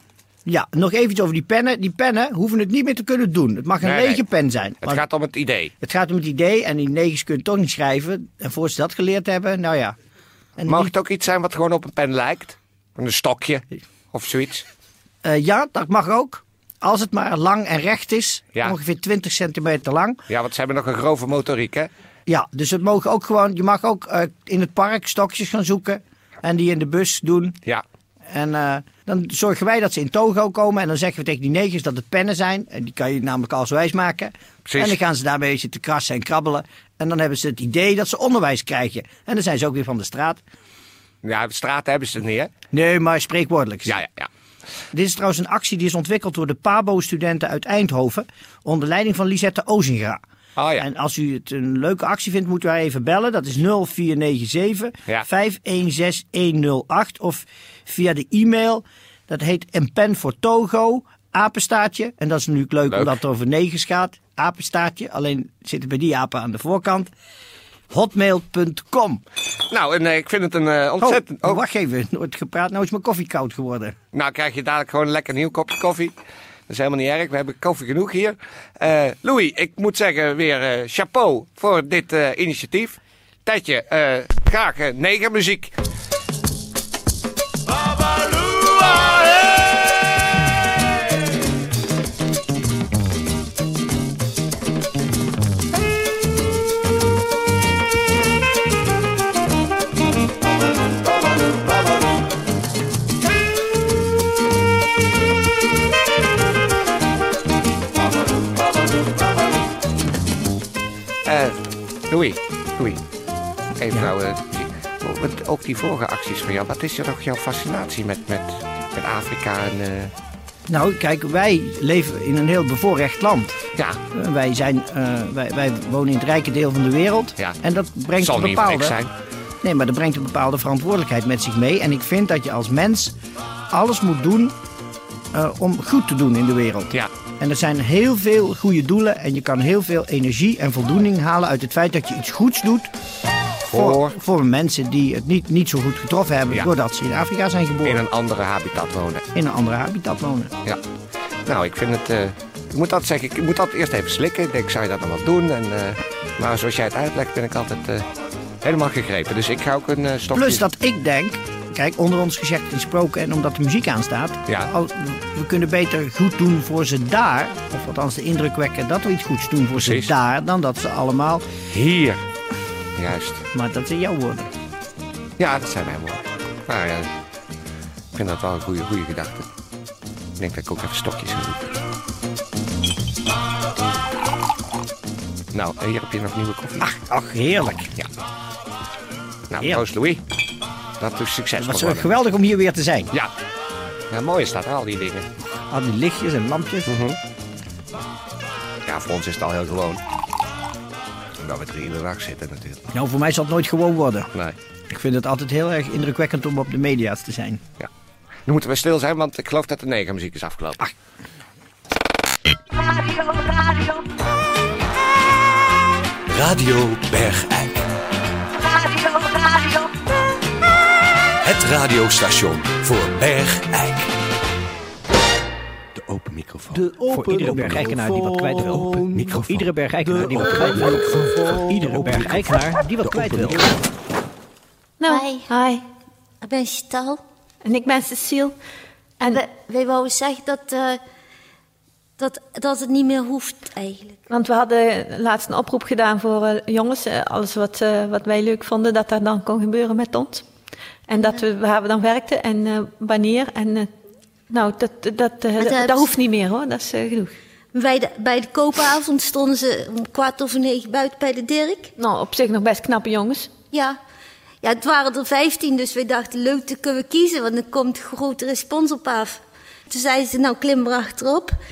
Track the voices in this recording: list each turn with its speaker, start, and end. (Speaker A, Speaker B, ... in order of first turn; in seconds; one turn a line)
Speaker A: 0.5-5.0
Speaker B: 3.8-4.2
Speaker B: 4.8-5.7
Speaker A: 5.8-9.9
Speaker A: 10.6-10.9
Speaker B: 10.7-14.6
Speaker A: 15.2-20.2
Speaker B: 20.3-21.9
Speaker A: 22.3-27.6
Speaker A: 28.3-40.4
Speaker B: 34.6-35.0
Speaker B: 41.2-42.5
Speaker A: 42.7-44.0
Speaker B: 43.8-44.3
Speaker A: 44.9-50.2
Speaker B: 50.5-50.8
Speaker A: 50.8-67.1
Speaker B: 62.9-63.2
Speaker A: 67.9-69.2
Speaker B: 69.7-71.6
Speaker A: 71.0-73.9
Speaker B: 74.1-76.1
Speaker B: 76.7-85.7
Speaker B: 111.2-113.0
Speaker B: 113.8-120.1
Speaker A: 120.7-123.5
Speaker A: 124.1-129.0
Speaker B: 128.2-129.1
Speaker A: 129.6-133.1
Speaker A: 133.7-134.5
Speaker A: 135.3-142.9
Speaker B: 143.6-144.1
Speaker A: 143.7-148.0
Speaker B: 147.8-149.2
Speaker A: 149.3-150.5
Speaker B: 151.4-158.0
Speaker B: 158.6-160.6
Speaker A: 160.3-171.4
Speaker B: 169.8-170.1
Speaker B: 171.7-172.2
Speaker B: 172.9-173.4
Speaker A: 173.5-174.5
Speaker B: 175.4-177.1
Speaker B: 178.1-179.5
Speaker B: 180.4-181.7
Speaker B: 185.5-186.9
Speaker A: 186.8-187.9
Speaker B: 189.5-190.2
Speaker B: 191.0-192.1
Speaker A: 191.6-193.1
Speaker B: 194.1-195.3
Speaker A: 195.7-196.9
Speaker B: 196.9-197.2
Speaker B: 198.8-200.0
Speaker B: 201.4-202.8
Speaker A: 202.9-204.3
Speaker A: 204.9-207.6
Speaker B: 208.4-210.8
Speaker B: 213.1-213.7
Speaker B: 216.4-217.5
Speaker C: 216.8-217.7
Speaker B: 218.7-219.8
Speaker C: 221.5-223.0
Speaker B: 221.6-223.6
Speaker A: 226.7-233.7
Speaker C: 227.1-228.1
Speaker C: 228.7-229.5
Speaker C: 230.4-231.0
Speaker C: 231.9-232.4
Speaker C: 233.0-233.6
Speaker D: 235.0-235.8
Speaker E: 235.1-235.5
Speaker E: 236.4-237.2
Speaker D: 237.6-238.5
Speaker E: 239.2-241.0
Speaker E: 242.2-244.2
Speaker D: 244.3-250.4
Speaker D: 251.1-253.9
Speaker E: 251.2-251.4
Speaker D: 254.5-257.3
Speaker E: 255.6-256.2
Speaker E: 257.7-261.9
Speaker D: 261.9-263.5
Speaker E: 263.7-264.0
Speaker E: 264.6-271.5